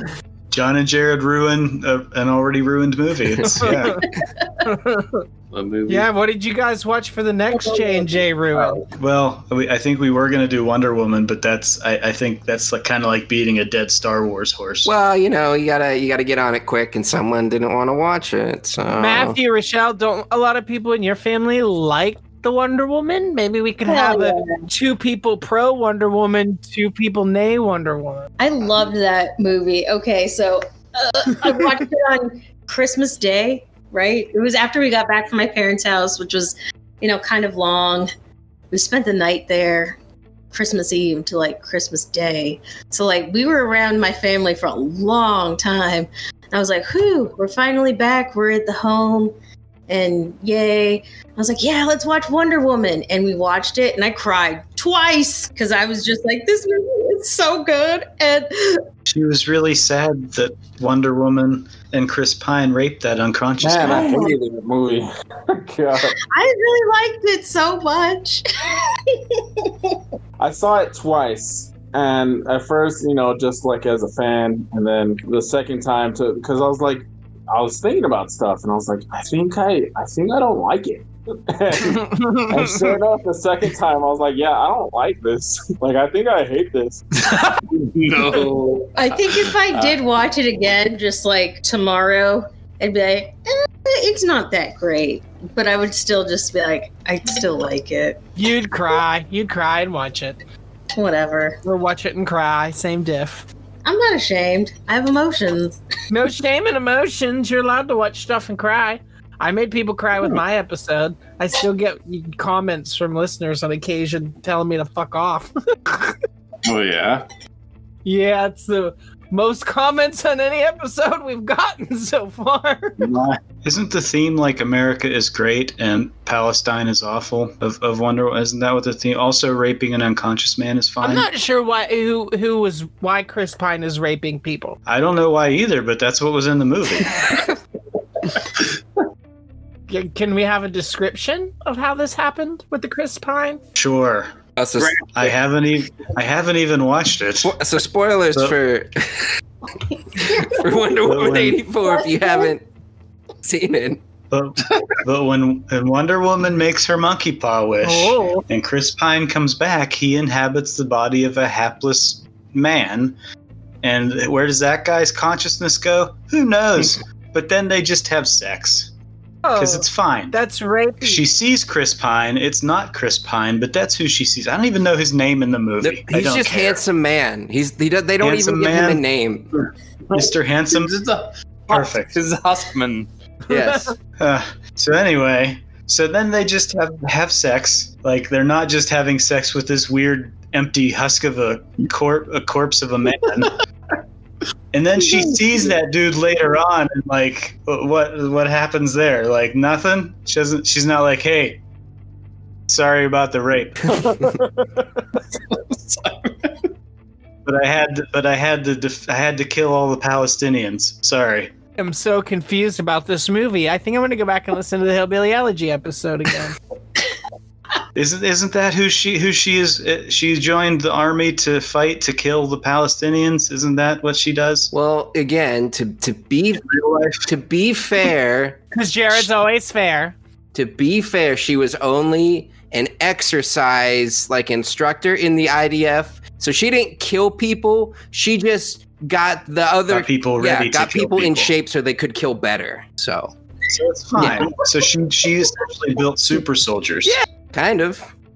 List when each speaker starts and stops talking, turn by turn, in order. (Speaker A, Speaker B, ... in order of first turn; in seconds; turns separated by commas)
Speaker A: 0.5-4.1, Speaker B: 3.6-4.0, Speaker C: 3.9-4.6, Speaker B: 4.7-5.2, Speaker D: 5.5-6.1, Speaker B: 5.9-8.8, Speaker C: 7.5-8.2, Speaker D: 8.6-8.9, Speaker A: 9.0-14.9, Speaker E: 14.8-19.4, Speaker B: 19.0-28.3, Speaker C: 23.9-24.7, Speaker C: 28.4-38.1, Speaker C: 38.7-40.0, Speaker C: 40.5-49.3, Speaker C: 49.9-58.8, Speaker A: 59.1-64.3, Speaker F: 63.6-66.2, Speaker C: 63.8-64.3, Speaker C: 66.0-69.7, Speaker F: 70.4-87.0, Speaker B: 81.9-82.5, Speaker D: 87.3-90.0, Speaker C: 89.0-98.2, Speaker B: 98.4-100.4, Speaker C: 101.0-101.6, Speaker B: 101.6-103.5, Speaker C: 103.8-105.8, Speaker B: 106.1-116.2, Speaker D: 116.6-117.3, Speaker B: 118.0-123.0, Speaker D: 123.0-123.4, Speaker A: 123.6-131.3, Speaker B: 131.0-134.8, Speaker A: 134.9-137.4, Speaker B: 139.9-143.6, Speaker A: 143.8-144.3, Speaker E: 144.6-145.3, Speaker D: 144.8-145.1, Speaker A: 145.1-147.6, Speaker E: 147.4-149.3, Speaker C: 150.2-150.6, Speaker E: 150.2-152.6, Speaker A: 151.0-151.6, Speaker C: 151.8-152.5, Speaker E: 153.4-154.0, Speaker A: 154.3-163.2, Speaker B: 157.8-158.4, Speaker A: 163.8-168.9, Speaker B: 169.4-171.2, Speaker A: 169.6-170.4, Speaker A: 171.0-176.8, Speaker E: 175.8-179.5, Speaker A: 178.2-179.0, Speaker D: 180.1-183.1, Speaker A: 180.1-180.9, Speaker A: 181.7-182.2, Speaker E: 183.5-183.9, Speaker B: 183.5-183.9, Speaker A: 184.2-193.6, Speaker A: 194.7-201.6, Speaker A: 202.7-204.1, Speaker F: 204.0-204.8, Speaker D: 205.5-206.5, Speaker A: 207.4-211.5, Speaker B: 211.8-216.6, Speaker A: 217.9-224.7, Speaker E: 224.7-226.7, Speaker A: 226.6-227.3, Speaker E: 227.2-228.6, Speaker B: 228.7-230.2, Speaker E: 230.5-243.3, Speaker A: 239.9-241.5, Speaker A: 243.7-247.2, Speaker E: 244.2-244.5, Speaker E: 247.1-248.1